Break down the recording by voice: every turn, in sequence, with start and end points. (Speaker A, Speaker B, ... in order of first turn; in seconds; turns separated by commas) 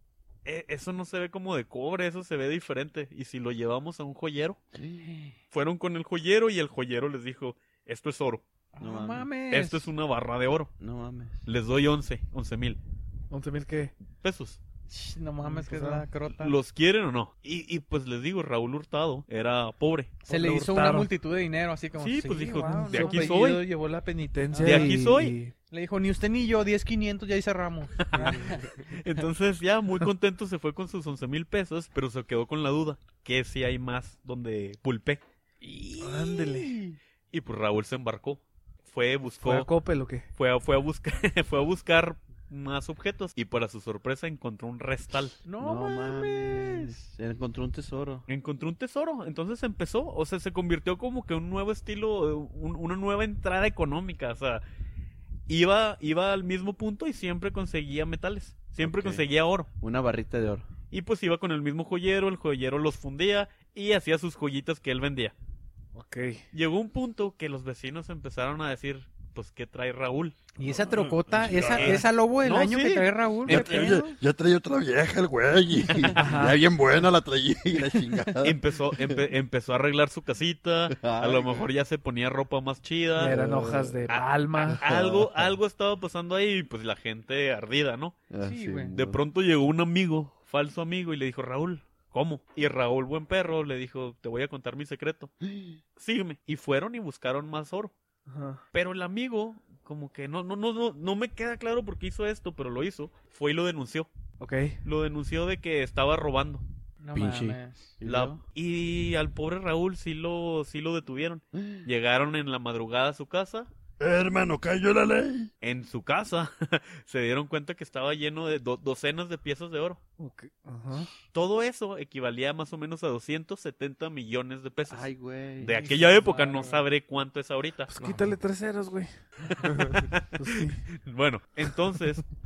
Speaker A: 0.5-4.6, Speaker B: 4.8-5.0, Speaker A: 5.5-8.4, Speaker C: 8.7-9.9, Speaker B: 8.8-9.3, Speaker A: 9.5-10.7, Speaker B: 10.8-11.4, Speaker A: 11.5-12.8, Speaker D: 13.3-13.9, Speaker A: 14.2-14.6, Speaker C: 14.9-16.6, Speaker D: 15.4-16.1, Speaker A: 16.4-20.5, Speaker C: 20.3-23.5, Speaker D: 20.3-21.1, Speaker A: 22.0-23.7, Speaker D: 22.6-25.5, Speaker C: 24.5-25.1, Speaker A: 24.6-25.4, Speaker C: 25.7-28.7, Speaker A: 28.1-28.4, Speaker A: 29.0-35.2, Speaker C: 35.6-37.0, Speaker D: 36.0-36.7, Speaker A: 37.3-39.7, Speaker D: 39.4-40.3, Speaker A: 40.4-45.4, Speaker C: 45.5-47.0, Speaker B: 45.6-48.3, Speaker A: 48.3-54.6, Speaker A: 55.5-59.7, Speaker B: 58.8-59.2, Speaker B: 59.8-60.7, Speaker A: 60.9-65.3, Speaker D: 66.0-66.4, Speaker A: 66.5-70.4, Speaker C: 70.6-74.1, Speaker E: 70.6-72.0, Speaker A: 71.6-73.9, Speaker E: 73.5-78.5, Speaker D: 76.2-76.6, Speaker B: 76.3-78.5, Speaker A: 78.4-83.4, Speaker B: 80.9-81.6, Speaker D: 83.2-84.8, Speaker B: 83.2-84.1, Speaker A: 84.1-88.2, Speaker B: 84.6-85.6, Speaker B: 88.3-89.2, Speaker C: 88.4-89.0, Speaker A: 88.9-95.3, Speaker B: 95.5-95.8, Speaker A: 96.0-97.9, Speaker D: 98.3-98.6, Speaker A: 98.7-104.1, Speaker D: 104.4-104.8, Speaker A: 104.8-106.6, Speaker C: 107.0-107.9, Speaker B: 107.1-108.4, Speaker A: 108.0-113.7, Speaker E: 114.0-115.5, Speaker A: 115.6-120.0, Speaker D: 120.2-121.1, Speaker A: 121.3-125.1, Speaker B: 124.9-125.8, Speaker A: 125.6-127.9, Speaker C: 125.7-126.9, Speaker D: 127.9-129.1, Speaker D: 129.6-130.8, Speaker A: 129.8-132.3